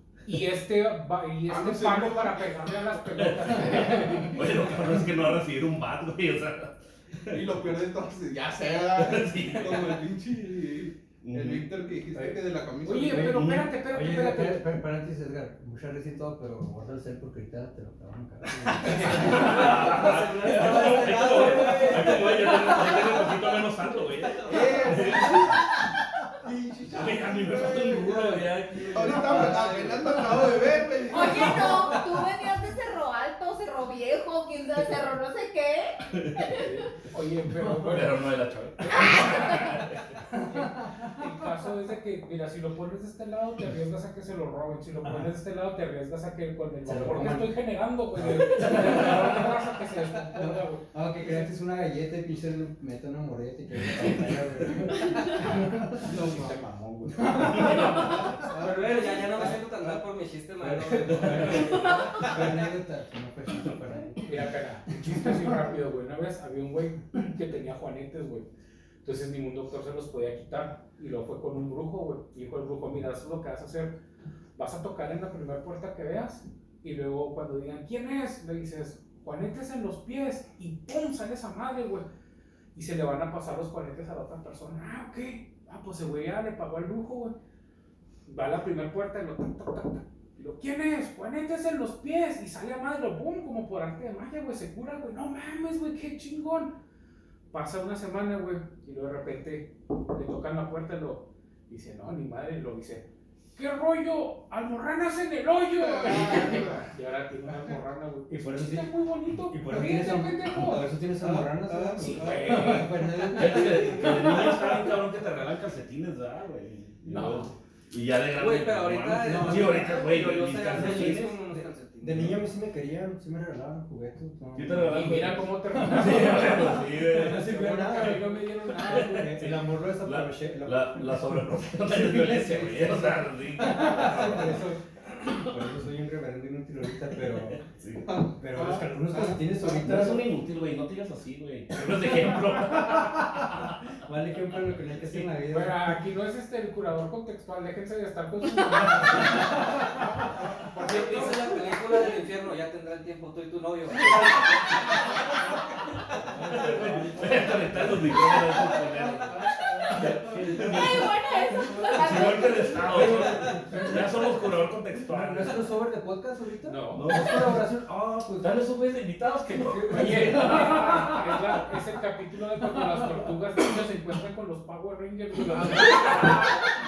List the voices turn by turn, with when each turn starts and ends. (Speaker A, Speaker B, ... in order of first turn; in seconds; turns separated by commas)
Speaker A: 0.3-4.4, Speaker B: 1.5-4.6, Speaker C: 3.2-7.4, Speaker B: 7.3-13.3, Speaker C: 9.0-10.0, Speaker C: 11.2-11.7, Speaker D: 12.1-12.4, Speaker A: 12.8-14.8, Speaker D: 12.9-22.1, Speaker C: 13.3-13.7, Speaker C: 18.9-25.7, Speaker A: 18.9-19.2, Speaker E: 18.9-23.3, Speaker E: 24.3-24.7, Speaker B: 24.5-25.8, Speaker B: 26.4-31.9, Speaker C: 26.9-29.7, Speaker E: 28.0-30.8, Speaker F: 31.1-36.7, Speaker C: 31.3-31.7, Speaker C: 36.1-36.6, Speaker A: 36.5-38.2, Speaker C: 37.8-40.1, Speaker A: 38.9-39.8, Speaker F: 38.9-39.8, Speaker A: 40.4-51.5, Speaker D: 40.5-41.2, Speaker D: 45.0-45.3, Speaker D: 46.9-47.5, Speaker D: 48.2-49.5, Speaker C: 48.3-49.4, Speaker D: 50.3-56.3, Speaker C: 54.0-54.9, Speaker B: 56.0-56.6, Speaker A: 56.1-58.2, Speaker D: 57.2-59.9, Speaker C: 57.3-58.5, Speaker B: 58.1-58.8, Speaker E: 58.5-62.6, Speaker D: 60.6-65.8, Speaker C: 61.0-61.7, Speaker A: 64.3-68.5, Speaker A: 69.0-74.0, Speaker A: 74.6-82.1, Speaker A: 82.8-87.3, Speaker A: 88.3-96.7, Speaker A: 97.5-110.9, Speaker B: 105.8-106.9, Speaker B: 107.5-107.8, Speaker D: 108.3-108.9, Speaker D: 109.5-114.9, Speaker B: 111.2-113.2, Speaker A: 112.0-113.0, Speaker C: 113.3-121.4, Speaker A: 117.1-117.5, Speaker E: 118.3-122.3, Speaker D: 119.2-137.6, Speaker C: 124.5-129.5, Speaker A: 124.8-129.6, Speaker C: 130.0-134.6, Speaker C: 137.3-138.1, Speaker B: 138.1-139.5, Speaker D: 138.4-140.3, Speaker C: 139.6-143.8, Speaker D: 142.2-146.0, Speaker A: 145.5-149.8, Speaker C: 149.0-149.4, Speaker B: 150.2-151.5, Speaker E: 150.8-155.4, Speaker A: 150.9-151.2, Speaker D: 156.3-158.4, Speaker C: 156.4-161.2, Speaker B: 159.1-160.7, Speaker D: 160.0-164.4, Speaker F: 160.7-163.2, Speaker C: 161.9-165.7, Speaker D: 165.0-168.6, Speaker A: 166.7-167.2, Speaker C: 166.9-167.7, Speaker C: 168.4-171.2, Speaker D: 169.5-171.6, Speaker A: 169.9-176.6, Speaker D: 172.7-173.2, Speaker C: 175.6-176.6